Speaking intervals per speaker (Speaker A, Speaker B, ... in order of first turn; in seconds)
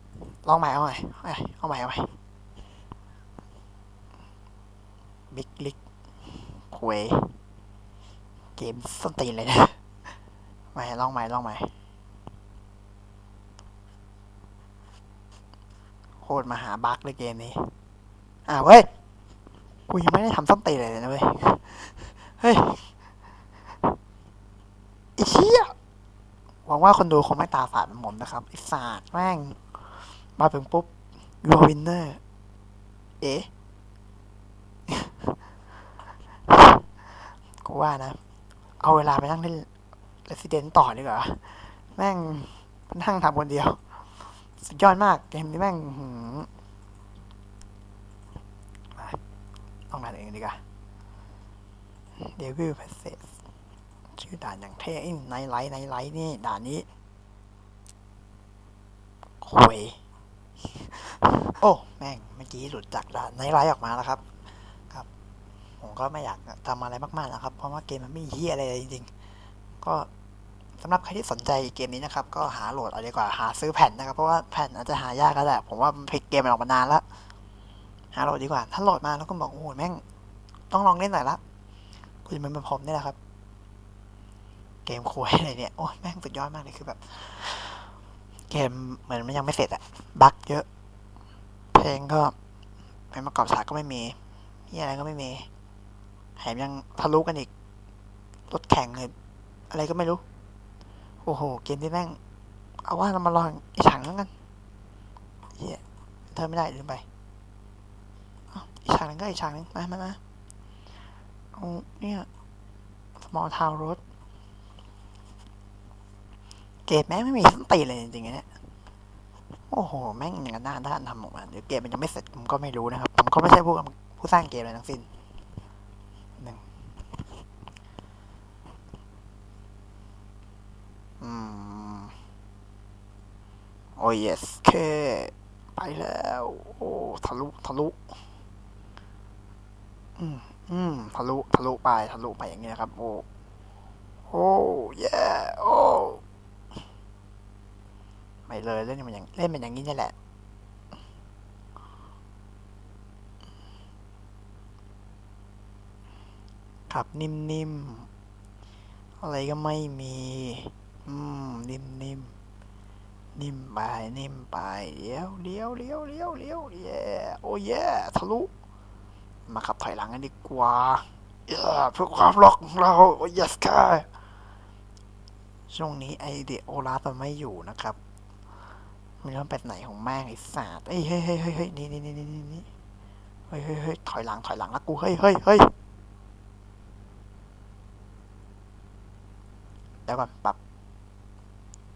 Speaker A: 0.4-2.1, 5.3-7.3, 8.6-9.8, 10.7-11.7, 16.2-17.7, 18.5-18.9, 19.9-22.9, 25.2-25.7, 26.7-29.6, 30.4-30.9, 31.4-32.2, 33.2-33.5, 34.9-35.4, 36.5-36.9, 37.6-38.2, 38.8-39.7, 40.3-43.8, 44.6-46.5, 49.9-50.6, 52.2-53.3, 54.1-56.9, 59.4-60.0, 60.7-64.2, 65.8-69.1, 69.8-70.1, 70.8-77.0, 78.1-80.0, 80.7-81.4, 82.2-83.2, 84.9-87.9, 88.5-90.7, 91.7-92.3, 93.1-94.2, 94.7-95.5, 96.4-97.5, 98.5-99.1, 99.7-100.2, 101.2-102.2, 102.8-104.3, 105.5-105.8, 106.3-107.0, 108.5-110.2, 111.5-112.3, 113.2-114.0, 116.9-118.5, 119.7-125.1, 126.4-126.6, 131.2-132.2, 134.0-138.1, 140.2-143.2, 144.3-146.2, 148.5-150.1, 156.9-158.1, 159.2-162.3, 163.4-168.5, 169.5-174.1, 175.7-178.0, 179.2-182.7, 183.5-185.7, 190.1-190.6